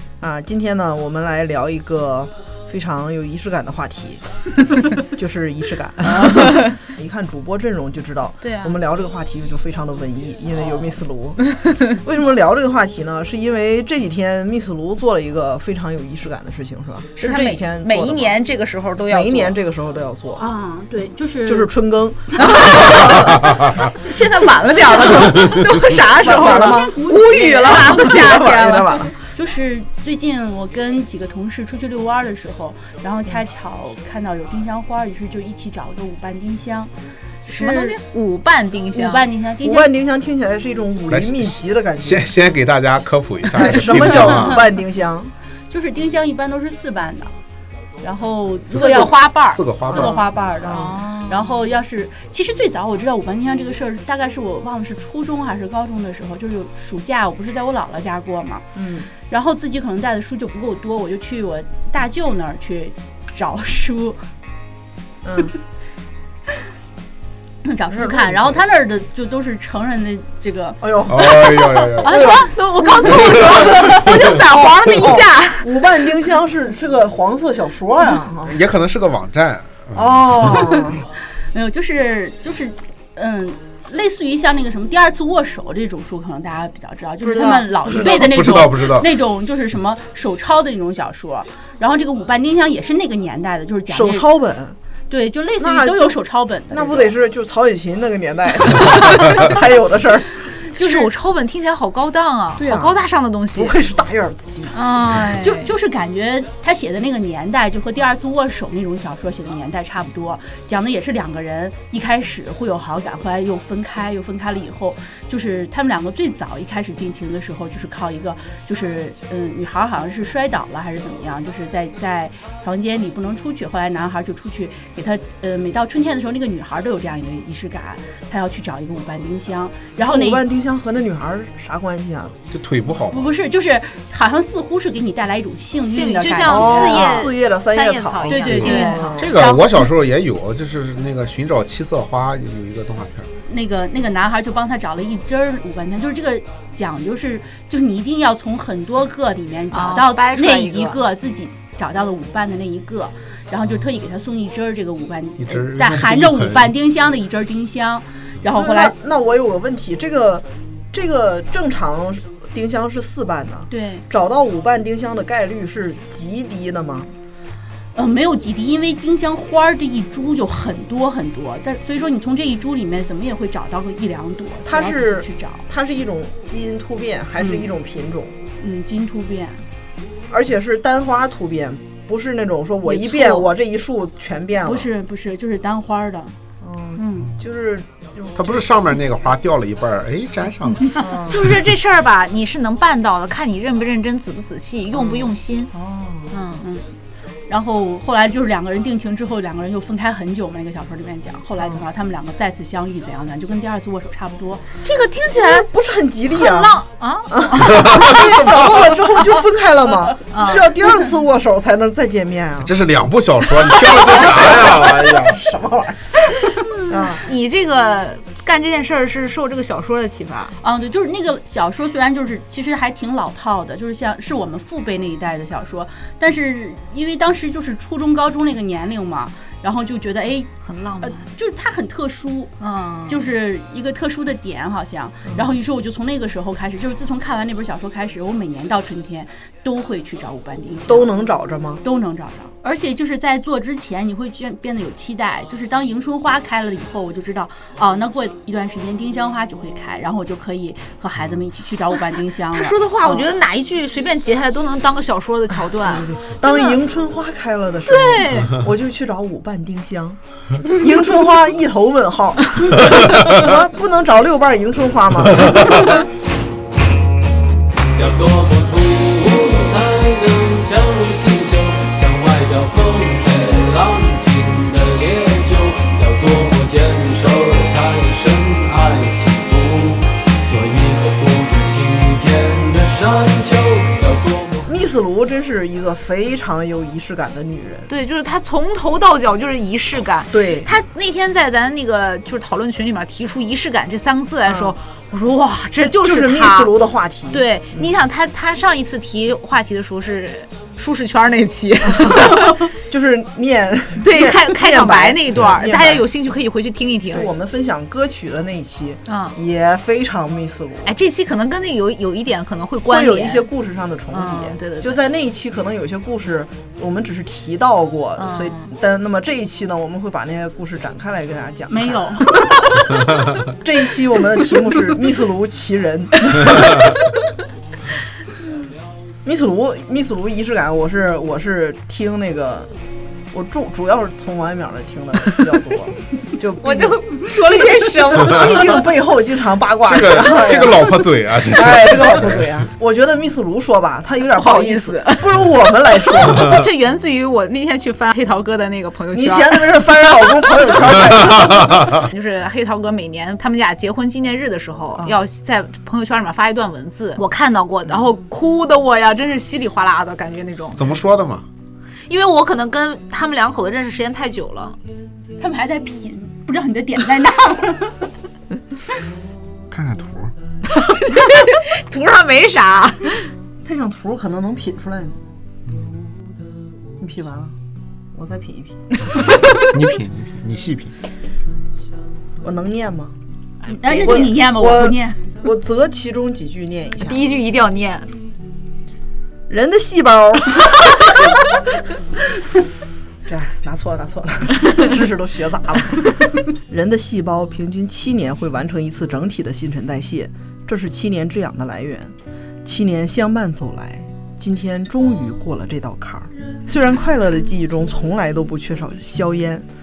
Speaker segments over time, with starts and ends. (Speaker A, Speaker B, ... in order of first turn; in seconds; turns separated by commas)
Speaker A: 0.2-4.2, Speaker A: 4.9-18.4, Speaker B: 6.2-6.7, Speaker B: 8.4-8.8, Speaker B: 17.2-19.6, Speaker A: 19.1-20.4, Speaker C: 20.4-21.7, Speaker A: 21.4-23.5, Speaker B: 22.3-29.0, Speaker A: 25.1-25.4, Speaker A: 26.1-26.9, Speaker C: 26.2-28.2, Speaker A: 27.8-29.1, Speaker C: 29.1-36.9, Speaker C: 37.5-38.0, Speaker B: 37.5-39.3, Speaker C: 38.9-39.9, Speaker A: 39.6-42.3, Speaker D: 41.1-44.6, Speaker A: 43.5-45.3, Speaker C: 43.9-44.6, Speaker C: 45.7-47.3, Speaker C: 48.0-49.2, Speaker D: 48.7-50.2, Speaker B: 48.7-49.6, Speaker C: 49.8-58.6, Speaker A: 49.9-51.0, Speaker B: 50.7-51.4, Speaker A: 58.7-59.1, Speaker C: 59.3-64.2, Speaker A: 65.2-65.5, Speaker C: 67.6-71.0, Speaker A: 67.9-68.6, Speaker A: 70.8-71.3, Speaker D: 71.1-72.1, Speaker B: 72.0-75.7, Speaker A: 72.0-78.6, Speaker D: 73.1-74.1, Speaker D: 78.4-80.5, Speaker A: 79.9-81.0, Speaker C: 81.5-94.3, Speaker B: 87.2-87.7, Speaker A: 87.9-88.2, Speaker D: 87.9-89.1, Speaker A: 93.9-94.8, Speaker C: 95.1-97.1, Speaker A: 95.6-96.2, Speaker A: 96.7-101.0, Speaker C: 99.1-99.3, Speaker B: 100.7-103.8, Speaker A: 102.6-103.0, Speaker A: 103.5-104.8, Speaker B: 104.7-105.7, Speaker C: 105.4-130.4, Speaker A: 130.0-132.3, Speaker D: 132.5-133.3, Speaker C: 133.1-137.2, Speaker B: 135.8-139.6, Speaker A: 136.4-139.4, Speaker C: 138.3-139.9, Speaker D: 138.5-143.3, Speaker C: 143.4-158.9, Speaker B: 149.7-151.0, Speaker D: 155.4-156.7, Speaker A: 158.5-167.1, Speaker C: 163.7-164.1, Speaker C: 167.9-175.6, Speaker A: 174.6-178.3, Speaker C: 177.4-177.7, Speaker C: 178.6-179.6, Speaker A: 180.3-184.9, Speaker B: 182.9-183.3, Speaker C: 184.6-186.3, Speaker A: 186.6-188.6, Speaker C: 187.0-187.3, Speaker D: 188.4-191.0, Speaker B: 191.0-195.7, Speaker A: 191.0-191.5, Speaker A: 194.9-196.3, Speaker B: 196.3-196.6, Speaker C: 196.6-196.9, Speaker C: 197.5-204.6, Speaker B: 204.8-205.7, Speaker A: 205.3-212.7, Speaker B: 206.3-208.4, Speaker D: 207.7-208.6, Speaker B: 210.3-210.7, Speaker D: 212.6-215.4, Speaker A: 213.7-217.2, Speaker B: 216.9-220.6, Speaker C: 220.6-230.5, Speaker B: 230.6-231.2, Speaker C: 231.0-232.5, Speaker B: 232.6-233.3, Speaker C: 233.1-241.1, Speaker A: 240.9-241.8, Speaker C: 241.8-253.3, Speaker B: 252.5-256.8, Speaker A: 255.8-266.0, Speaker B: 257.9-258.6, Speaker E: 267.9-284.7, Speaker A: 284.6-287.9, Speaker B: 287.9-296.7, Speaker A: 290.3-290.7, Speaker A: 294.4-294.8, Speaker A: 295.8-297.9, Speaker B: 297.3-302.6, Speaker A: 301.8-306.1, Speaker B: 304.0-307.3, Speaker A: 307.1-310.9, Speaker B: 309.1-309.4, Speaker B: 310.8-313.5, Speaker A: 312.9-322.0, Speaker B: 314.1-315.0, Speaker B: 318.2-318.7, Speaker C: 321.7-322.9, Speaker A: 323.6-327.0, Speaker A: 329.2-332.7, Speaker A: 333.3-346.6, Speaker B: 336.6-338.8, Speaker D: 339.9-342.5, Speaker B: 344.2-360.8, Speaker A: 349.1-352.1, Speaker D: 360.8-361.4, Speaker B: 362.1-364.8, Speaker C: 365.4-368.1, Speaker D: 369.7-370.3, Speaker B: 370.7-373.3, Speaker A: 373.6-375.2, Speaker A: 377.0-377.5, Speaker A: 378.1-379.0, Speaker B: 379.2-379.5, Speaker D: 379.3-380.9, Speaker A: 382.4-383.1, Speaker C: 383.6-385.3, Speaker A: 383.8-387.3, Speaker B: 387.0-388.1, Speaker A: 389.5-391.3, Speaker A: 393.2-409.6